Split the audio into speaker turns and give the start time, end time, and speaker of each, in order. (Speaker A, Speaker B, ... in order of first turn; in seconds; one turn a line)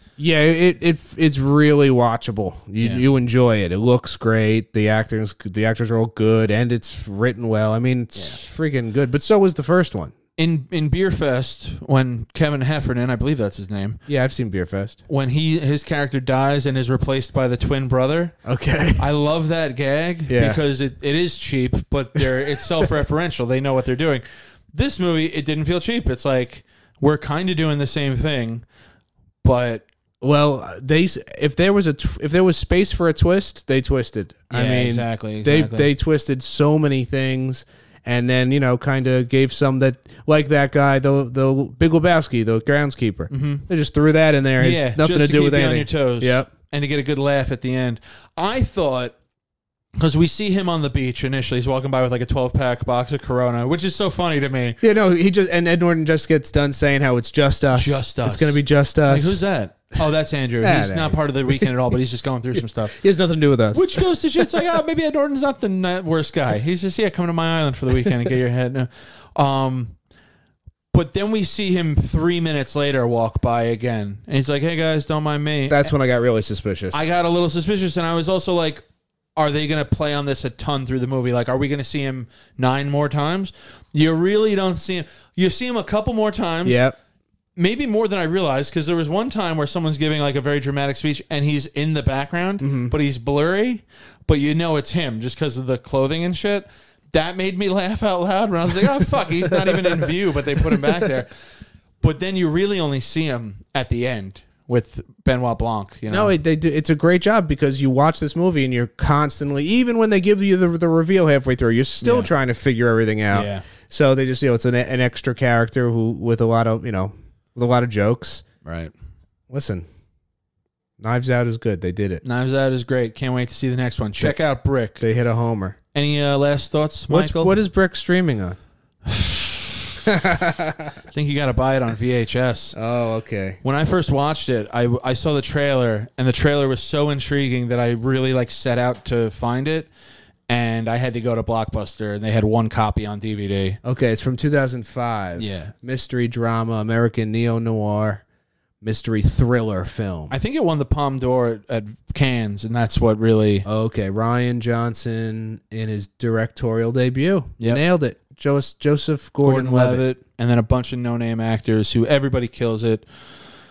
Speaker A: 0.2-10.1
Speaker B: 2.8-3.0
Speaker B: 10.4-14.0
Speaker A: 14.1-15.0
Speaker B: 15.1-18.4
Speaker A: 18.4-19.1
Speaker B: 19.0-28.6
Speaker A: 20.3-20.6
Speaker B: 29.4-29.9
Speaker A: 30.2-46.5
Speaker B: 34.5-35.9
Speaker B: 43.3-43.7
Speaker B: 44.6-49.1
Speaker B: 50.0-54.8
Speaker A: 54.8-59.4
Speaker B: 57.7-63.0
Speaker A: 60.6-61.7
Speaker A: 62.9-63.9
Speaker B: 63.7-70.0
Speaker B: 70.9-75.9
Speaker A: 75.7-77.0
Speaker B: 76.9-78.8
Speaker B: 79.3-86.8
Speaker A: 86.6-87.0
Speaker B: 87.5-101.3
Speaker A: 92.6-92.9
Speaker A: 99.6-100.0
Speaker B: 102.0-106.3
Speaker A: 106.1-118.4
Speaker B: 112.0-112.3
Speaker B: 113.3-113.7
Speaker B: 118.6-118.9
Speaker A: 119.5-119.8
Speaker A: 121.0-122.2
Speaker B: 122.2-125.0
Speaker A: 125.0-125.8
Speaker B: 125.9-127.6
Speaker A: 127.1-128.6
Speaker B: 129.1-129.9
Speaker A: 130.0-131.0
Speaker B: 131.1-132.8
Speaker A: 132.7-133.6
Speaker B: 133.6-139.9
Speaker B: 140.5-143.8
Speaker A: 143.8-148.2
Speaker B: 145.4-145.7
Speaker A: 148.8-150.3
Speaker B: 150.3-153.7
Speaker A: 153.6-160.0
Speaker B: 159.4-163.1